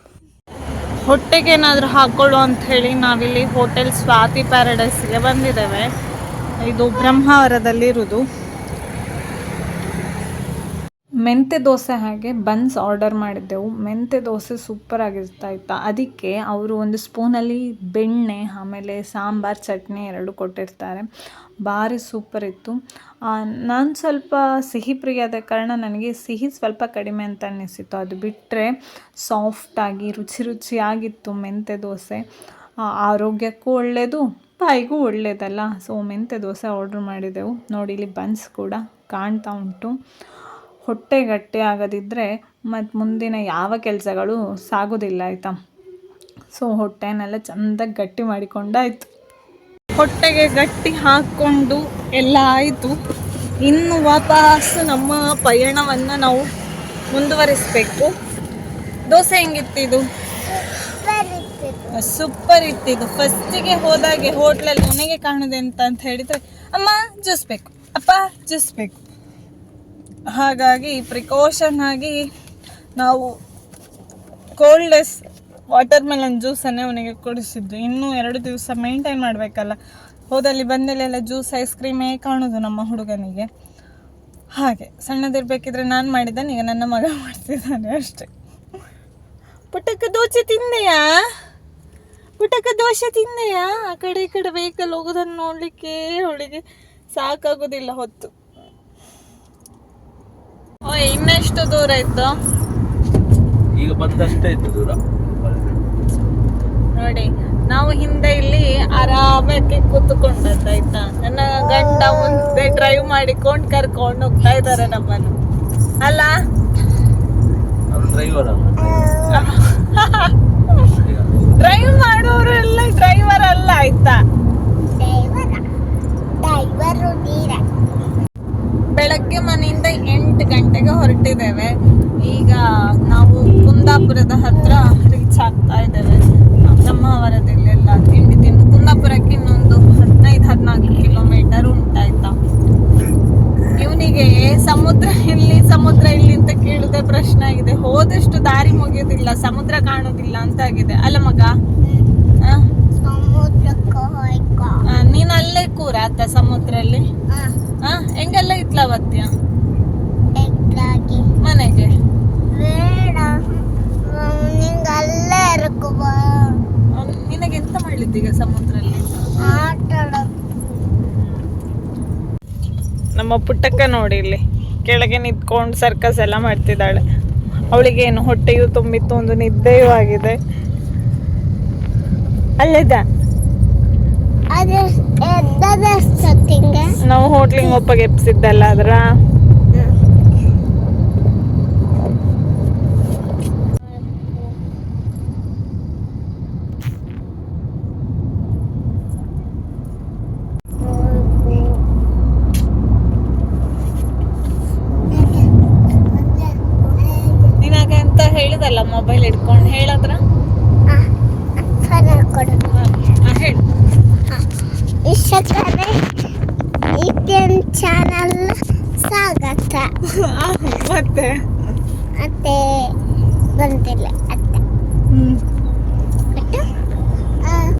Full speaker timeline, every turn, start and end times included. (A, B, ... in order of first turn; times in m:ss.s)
0:01.1-0:05.9 A
0:06.6-0:08.2 A
0:11.2-0:21.0 A
0:21.6-0:32.2 A
0:33.0-0:39.9 A
0:40.8-0:45.6 A
0:46.5-0:49.1 A
0:50.0-0:52.9 A
0:53.6-0:56.5 A
0:57.1-0:58.1 A
0:59.1-1:00.0 A
1:00.5-1:01.9 B
1:02.0-1:09.0 A
1:10.3-1:12.3 A
1:13.0-1:13.4 A
1:14.6-1:19.8 A
1:20.3-1:23.5 A
1:24.6-1:28.3 A
1:29.7-1:31.1 A
1:32.4-1:36.6 A
1:37.1-1:38.3 A
1:40.9-1:42.3 A
1:43.7-1:45.8 C
1:47.0-1:55.3 A
1:56.0-1:56.3 A
1:57.9-1:58.9 C
1:58.8-1:59.5 B
1:59.3-2:00.7 A
2:00.9-2:01.6 C
2:01.6-2:04.2 A
2:05.0-2:05.6 B
2:06.4-2:07.6 B
2:08.9-2:11.7 A
2:12.2-2:22.3 A
2:23.7-2:31.5 A
2:31.8-2:32.1 B
2:33.0-2:34.8 B
2:34.9-2:37.0 A
2:37.8-2:39.3 A
2:40.4-2:41.2 B
2:41.4-2:41.9 A
2:42.5-2:43.4 B
2:44.0-2:46.6 B
2:46.9-2:49.6 A
2:49.4-2:50.3 B
2:51.2-2:51.4 A
2:53.2-2:57.0 A
2:57.7-3:00.4 A
3:02.6-3:03.0 A
3:04.5-3:06.9 B
3:07.0-3:09.0 A
3:20.8-3:21.8 B
3:25.1-3:25.5 B
3:26.1-3:27.6 B
3:27.6-3:30.2 A
3:31.6-3:32.7 B
3:32.7-3:33.6 A
3:35.0-3:36.0 B
3:37.0-3:39.9 B
3:40.1-3:41.4 A
3:42.2-3:42.6 B
3:43.6-3:44.6 B
3:45.1-3:45.4 A
3:46.3-3:46.7 B
3:47.4-3:47.7 B